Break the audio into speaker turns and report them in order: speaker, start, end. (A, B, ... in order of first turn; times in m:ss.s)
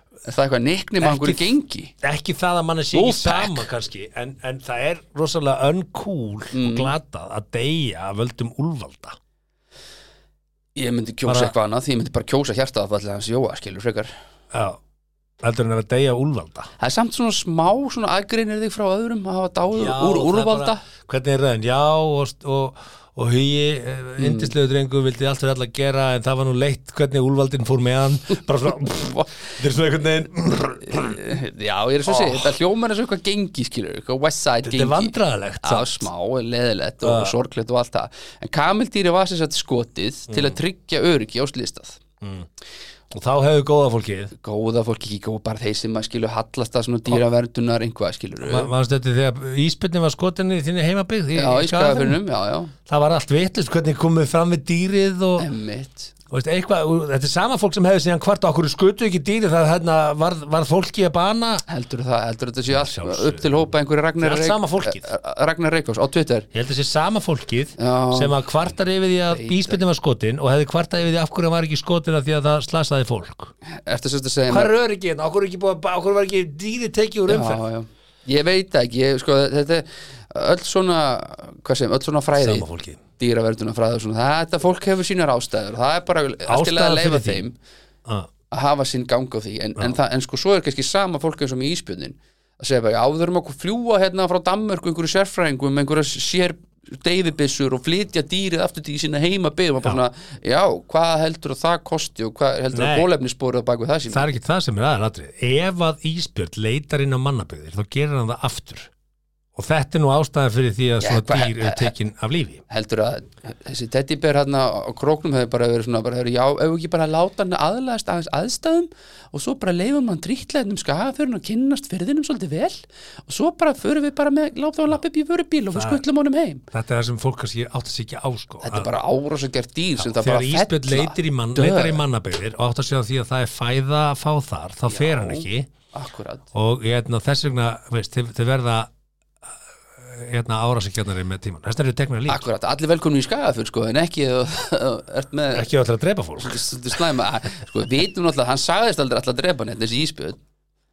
0:00.2-0:01.9 A
0:01.0-0:01.5 B
0:02.0-0:09.2 B
0:02.9-0:03.6 A
0:06.5-0:06.9 A
0:10.8-0:14.1 A
0:11.3-0:11.5 B
0:14.5-0:14.8 B
0:15.4-0:16.7 B
0:16.8-0:20.8 A
0:19.8-0:31.2 B
0:24.2-0:24.5 A
0:29.0-0:29.3 A
0:30.9-0:42.0 A
0:32.1-0:32.5 B
0:34.6-0:36.1 B
0:37.0-0:37.3 B
0:40.3-0:40.6 B
0:42.2-0:42.5 B
0:43.1-0:44.3 B
0:44.3-0:48.7 A
0:48.4-0:52.2 B
0:51.3-0:52.7 A
0:52.9-0:55.5 B
0:55.4-0:56.1 A
0:56.3-1:01.6 B
1:01.7-1:06.5 A
1:02.7-1:03.5 B
1:04.2-1:05.1 B
1:06.5-1:13.5 B
1:07.8-1:08.4 A
1:09.3-1:09.8 A
1:13.7-1:14.7 A
1:14.5-1:17.6 B
1:17.3-1:22.6 A
1:22.4-1:23.0 B
1:23.2-1:27.5 A
1:26.5-1:27.4 B
1:28.5-1:44.3 A
1:42.7-1:43.1 B
1:44.1-1:48.9 B
1:49.6-1:52.6 B
1:51.0-1:51.9 A
1:52.7-2:06.6 A
2:05.7-2:06.0 B
2:06.7-2:08.9 B
2:08.6-2:12.0 A
2:10.0-2:15.7 B
2:14.9-2:16.4 A
2:16.5-2:18.9 B
2:20.0-2:22.4 B
2:22.3-2:25.7 A
2:25.5-2:27.0 B
2:26.4-2:30.4 A